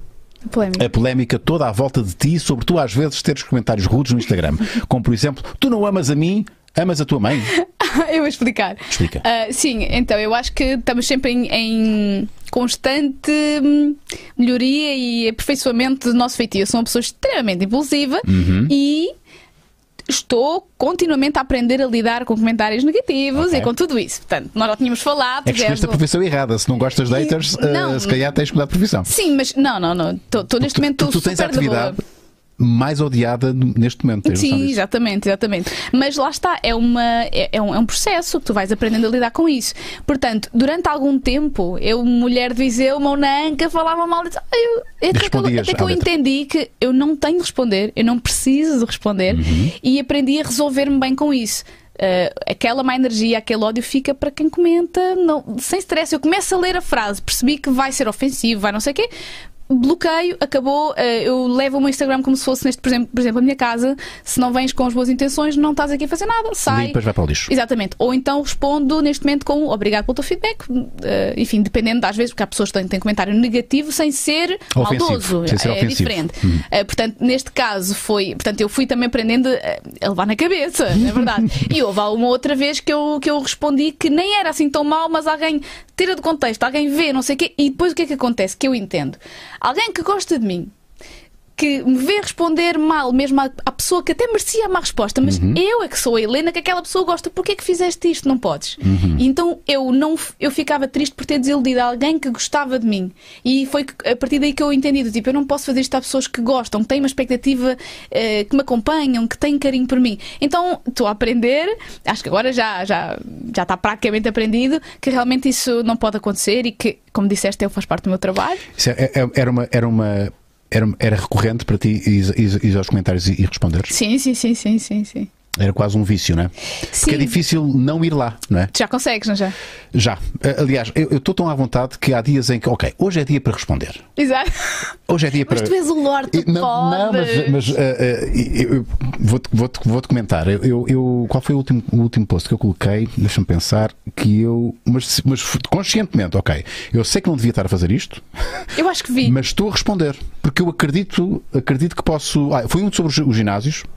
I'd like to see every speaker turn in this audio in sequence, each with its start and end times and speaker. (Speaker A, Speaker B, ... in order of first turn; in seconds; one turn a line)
Speaker A: 0.5-0.8
Speaker B: 0.8-7.5
Speaker A: 7.5-19.1
Speaker B: 8.9-9.2
Speaker B: 18.2-18.7
Speaker A: 20.1-26.0
Speaker B: 23.4-23.7
Speaker B: 25.4-29.1
Speaker A: 27.1-28.2
Speaker A: 29.1-32.0
Speaker B: 30.6-32.0
Speaker B: 32.6-34.8
Speaker A: 34.2-59.1
Speaker B: 45.1-46.1
Speaker B: 49.3-49.7
Speaker A: 59.7-90.7
Speaker B: 66.7-67.5
Speaker B: 74.7-76.6
Speaker A: 91.6-118.6
Speaker B: 95.2-95.6
Speaker B: 98.8-99.2
Speaker B: 118.8-123.9
Speaker A: 123.9-125.3
Speaker B: 125.6-128.7
Speaker A: 126.9-127.3
Speaker A: 128.7-129.5
Speaker B: 129.9-134.0
Speaker A: 134.2-134.8
Speaker B: 135.1-135.7
Speaker A: 135.4-137.7
Speaker B: 136.3-148.6
Speaker A: 148.7-149.3
Speaker B: 149.2-153.9